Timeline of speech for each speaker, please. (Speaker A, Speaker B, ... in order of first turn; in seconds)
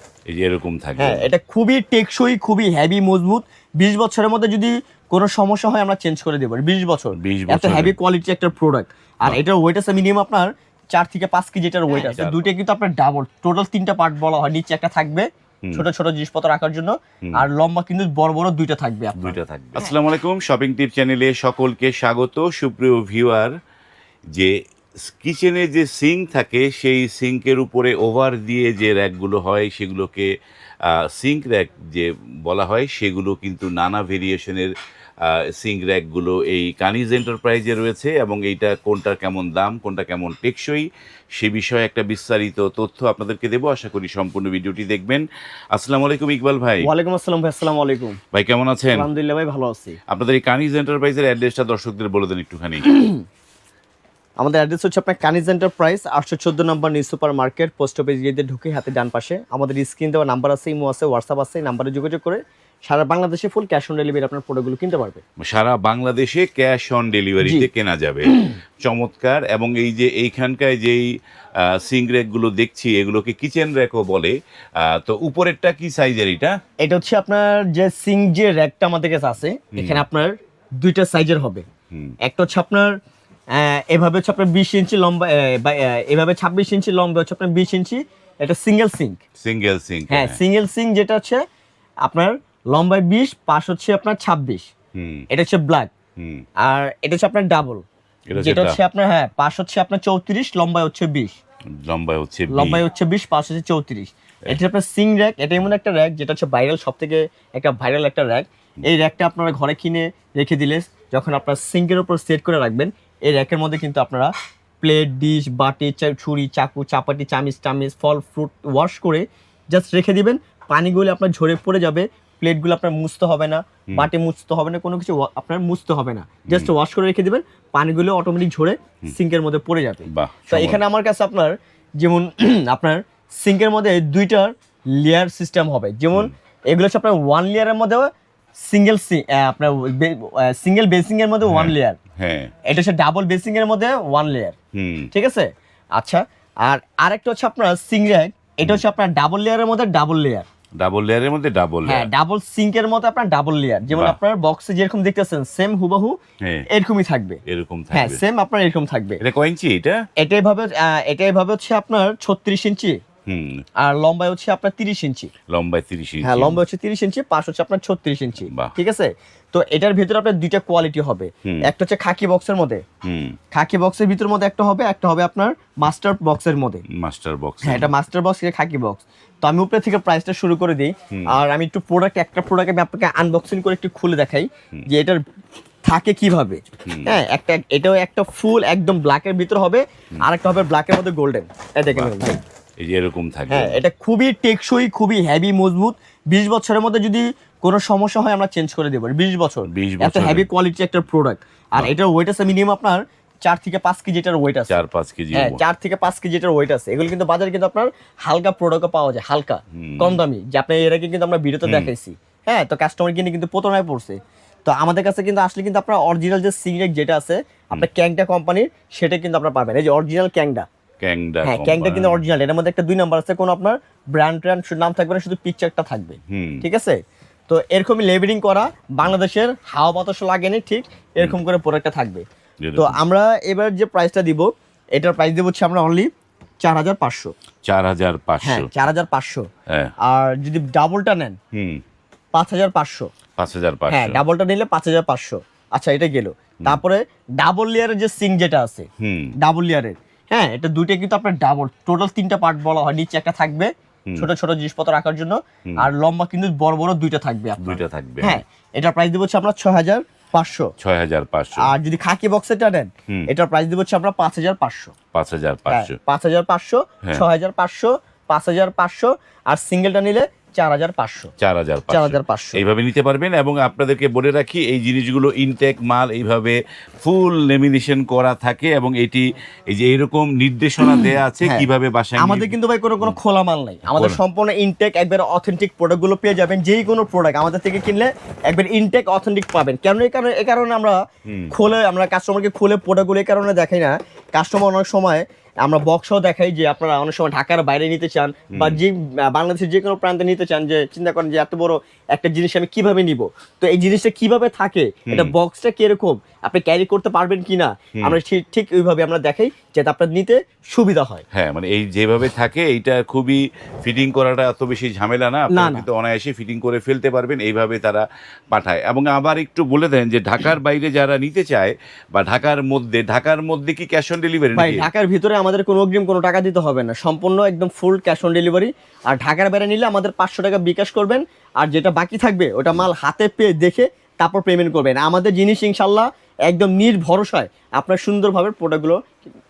Speaker A: 0.3-1.3, 7.2-8.0, 11.9-12.4, 19.2-23.5, 25.0-30.3, 30.9-34.7, 35.2-40.9, 41.4-46.9, 48.3-49.1, 50.1-52.9, 65.4-68.3, 68.8-71.1, 71.6-76.5, 79.7-80.0, 89.4-90.4, 95.0-95.3, 96.2-96.4, 98.3-98.8, 101.8-102.8, 126.5-126.7, 130.1-130.8, 141.4-142.5, 144.7-145.1, 150.8-152.1, 153.9-154.2, 157.5-158.2, 159.2-160.0, 163.3-163.6, 165.5-166.6, 168.4-168.7, 173.0-173.3, 177.0-177.9, 186.9-187.2, 191.9-192.1, 192.8-193.8, 199.7-200.5, 204.7-205.6, 209.8-210.2, 211.6-211.9, 221.0-222.2, 226.3-226.6, 232.6-233.0, 237.7-238.7, 241.5-241.8, 243.4-244.2, 249.0-249.3, 257.6-258.4, 260.8-261.7, 265.1-265.9, 271.4-283.2, 283.9-284.2, 291.3-291.5, 298.5-298.8, 311.3-324.9
Speaker B: 1.0-19.9, 46.8-48.2, 48.9-50.0, 52.8-53.2, 54.4-65.2, 67.4-67.7, 68.2-68.6, 76.8-81.7, 82.2-83.0, 83.5-89.2, 90.1-91.4, 92.0-94.7, 95.3-95.9, 96.6-97.8, 98.3-101.3, 102.5-138.1, 138.6-142.0, 142.7-144.5, 145.1-150.4, 151.8-156.2, 156.7-157.4, 157.9-159.2, 160.2-163.0, 163.8-165.3, 166.2-172.8, 173.5-176.8, 177.6-185.2, 185.8-192.4, 193.5-204.8, 205.3-220.7, 221.4-226.9, 227.5-232.2, 232.8-236.1, 236.6-237.3, 238.4-239.5, 240.0-241.4, 242.3-243.1, 243.9-248.9, 249.4-260.7, 261.6-264.9, 265.7-271.3, 271.9-272.6, 280.8-291.0, 291.5-311.2, 315.5-315.9, 324.5-339.1